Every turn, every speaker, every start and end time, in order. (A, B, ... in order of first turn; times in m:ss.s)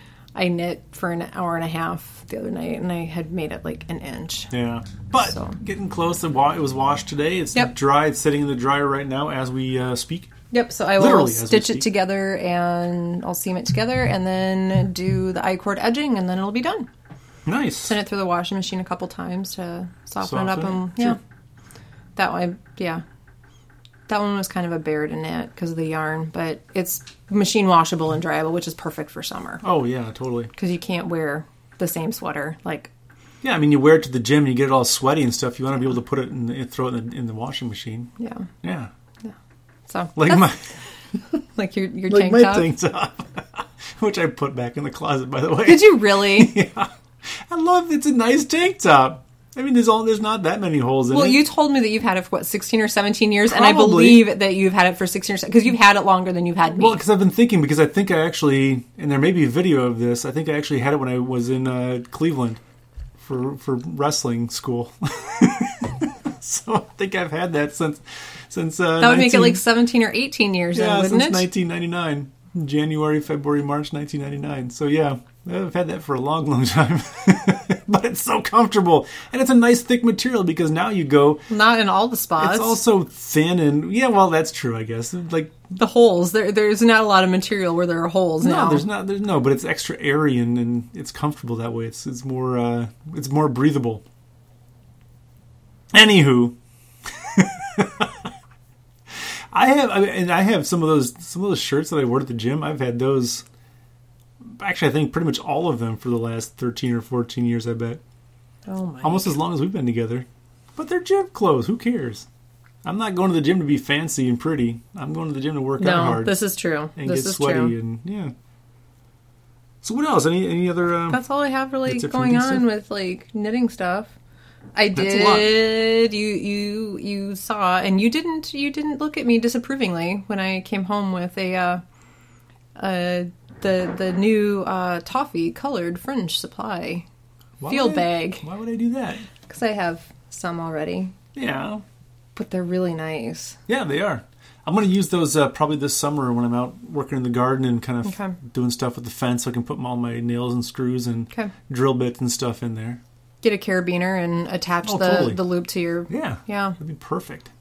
0:00.4-0:04.5 A
0:04.5-0:10.3 B
0:05.2-0:05.6 A
0:10.5-0:16.9 A
0:11.0-0:11.9 B
0:17.4-0:17.9 B
0:17.8-0:21.2 A
0:20.2-0:21.2 B
0:22.2-0:23.0 A
0:24.1-0:29.6 A
0:29.6-0:30.5 B
0:30.6-0:32.9 A
0:33.4-0:38.9 B
0:38.2-0:38.5 A
0:39.9-0:40.5 A
0:40.2-0:40.7 B
0:41.5-0:42.7 A
0:42.1-0:51.4 B
0:45.6-0:46.6 A
0:51.1-0:57.0 A
0:53.5-0:54.3 B
0:56.7-1:02.6 B
1:03.2-1:09.6 B
1:09.0-1:11.5 A
1:10.7-1:21.5 B
1:21.5-1:22.8 A
1:22.4-1:25.6 B
1:25.7-1:28.9 A
1:28.4-1:34.0 B
1:35.9-1:36.6 B
1:37.2-1:38.3 B
1:39.5-1:43.4 B
1:44.6-1:48.0 B
1:48.6-1:49.3 A
1:49.0-1:52.2 B
1:52.8-1:56.4 B
1:55.8-1:57.8 A
1:57.0-1:58.3 B
1:59.8-2:01.2 B
2:01.1-2:04.1 A
2:01.9-2:02.6 B
2:04.8-2:11.8 A
2:04.9-2:05.5 B
2:12.8-2:17.0 A
2:17.6-2:19.3 B
2:17.7-2:18.4 A
2:19.4-2:21.1 A
2:21.4-2:21.8 B
2:22.4-2:23.6 A
2:23.7-2:33.0 B
2:28.0-2:28.4 A
2:33.4-2:36.8 A
2:34.8-2:35.5 B
2:36.1-2:37.5 B